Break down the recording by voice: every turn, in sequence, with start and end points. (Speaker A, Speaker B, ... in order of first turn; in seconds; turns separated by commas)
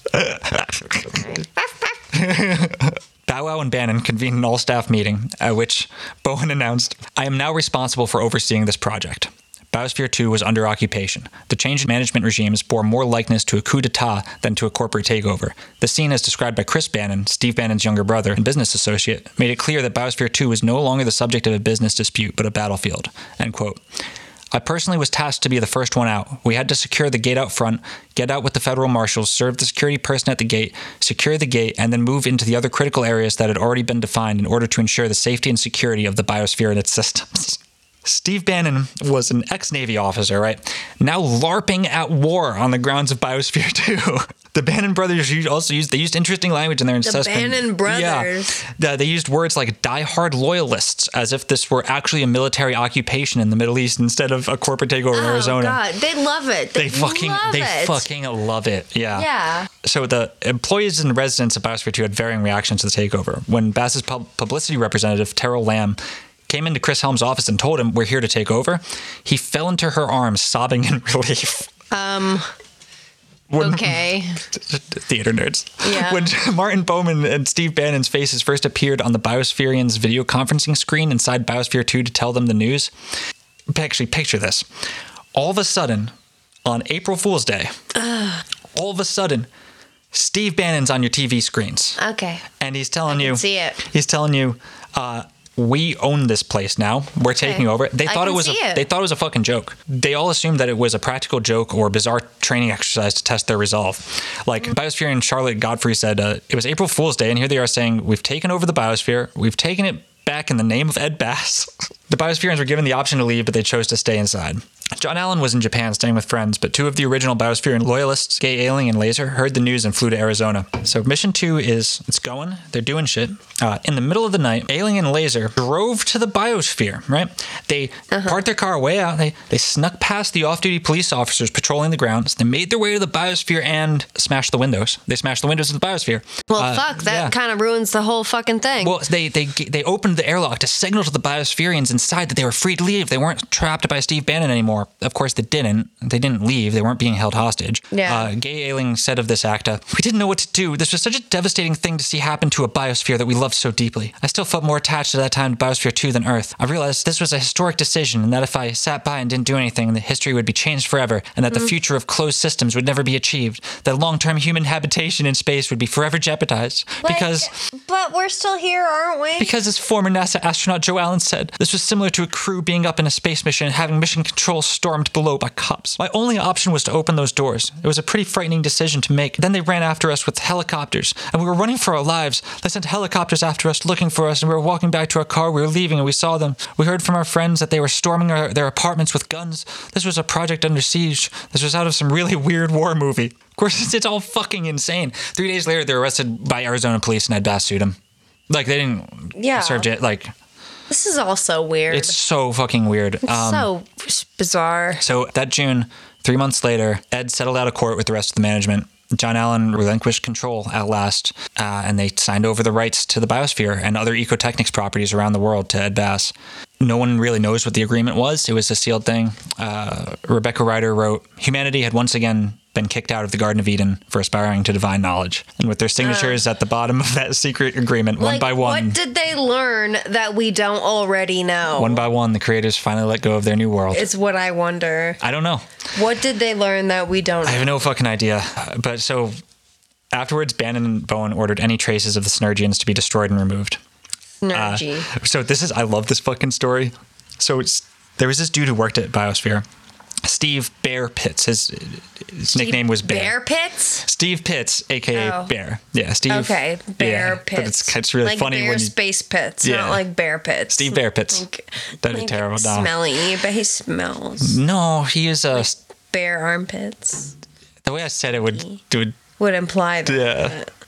Speaker A: 0.1-1.2, Speaker B: 1.1-2.0, Speaker A: 2.1-23.8, Speaker A: 24.5-55.8, Speaker B: 47.0-48.6, Speaker B: 55.1-58.0, Speaker A: 56.8-71.7, Speaker B: 59.2-59.7, Speaker B: 71.9-72.5, Speaker A: 73.5-82.9, Speaker B: 73.6-74.4, Speaker B: 75.8-76.3, Speaker A: 83.7-84.7, Speaker A: 85.3-86.1, Speaker A: 86.7-87.8, Speaker B: 88.0-88.4, Speaker A: 88.7-89.5, Speaker A: 90.1-92.0, Speaker B: 92.0-92.4, Speaker A: 92.6-137.3, Speaker B: 93.1-93.8, Speaker B: 97.4-98.8, Speaker B: 128.1-128.4, Speaker B: 136.5-138.9, Speaker A: 138.8-167.5, Speaker B: 147.9-148.3, Speaker B: 167.0-169.5, Speaker A: 169.4-198.0, Speaker A: 198.5-200.3, Speaker B: 199.3-199.9, Speaker B: 200.9-202.1, Speaker A: 201.9-203.7, Speaker B: 203.2-205.0, Speaker A: 205.0-229.0, Speaker B: 226.0-226.4, Speaker B: 228.2-232.1, Speaker A: 231.7-234.1, Speaker B: 233.9-235.2, Speaker A: 235.2-235.7, Speaker B: 235.9-237.7, Speaker A: 237.4-239.3, Speaker A: 240.1-243.8, Speaker B: 244.4-245.1, Speaker A: 244.5-249.7, Speaker A: 250.2-253.4, Speaker B: 252.5-254.1, Speaker A: 254.0-258.9, Speaker B: 255.2-255.5, Speaker B: 256.3-264.6, Speaker A: 259.6-260.0, Speaker A: 260.7-261.5, Speaker A: 262.0-262.9, Speaker A: 264.4-265.8, Speaker B: 265.6-267.3, Speaker A: 267.8-269.2, Speaker B: 269.4-270.7, Speaker A: 270.1-270.6